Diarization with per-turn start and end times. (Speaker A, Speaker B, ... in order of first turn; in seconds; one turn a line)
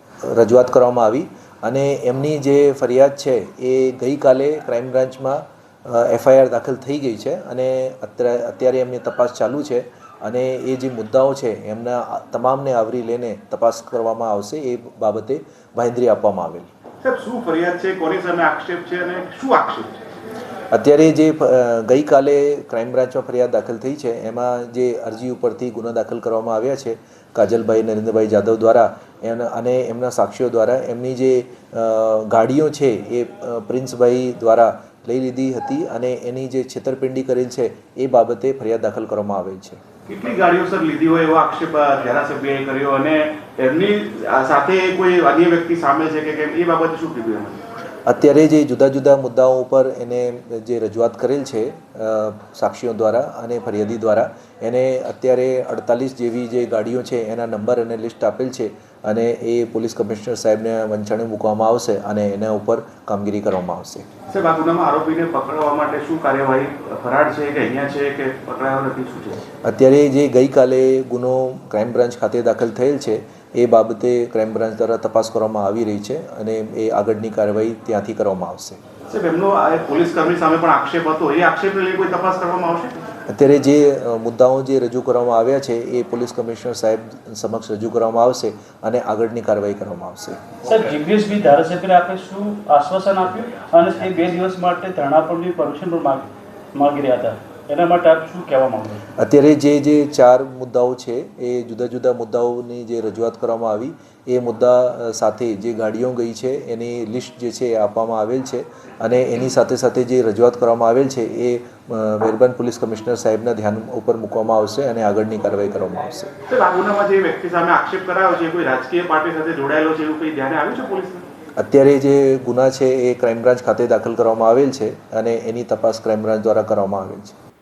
Speaker A: 0.3-16.7
Speaker B: 17.0-20.0
Speaker A: 20.7-39.8
Speaker B: 40.1-47.6
Speaker A: 48.1-64.0
Speaker B: 64.3-69.4
Speaker A: 69.6-78.8
Speaker B: 79.1-82.9
Speaker A: 83.3-90.4
Speaker C: 90.7-99.0
Speaker A: 99.2-116.3
Speaker B: 116.5-121.2
Speaker A: 121.6-127.3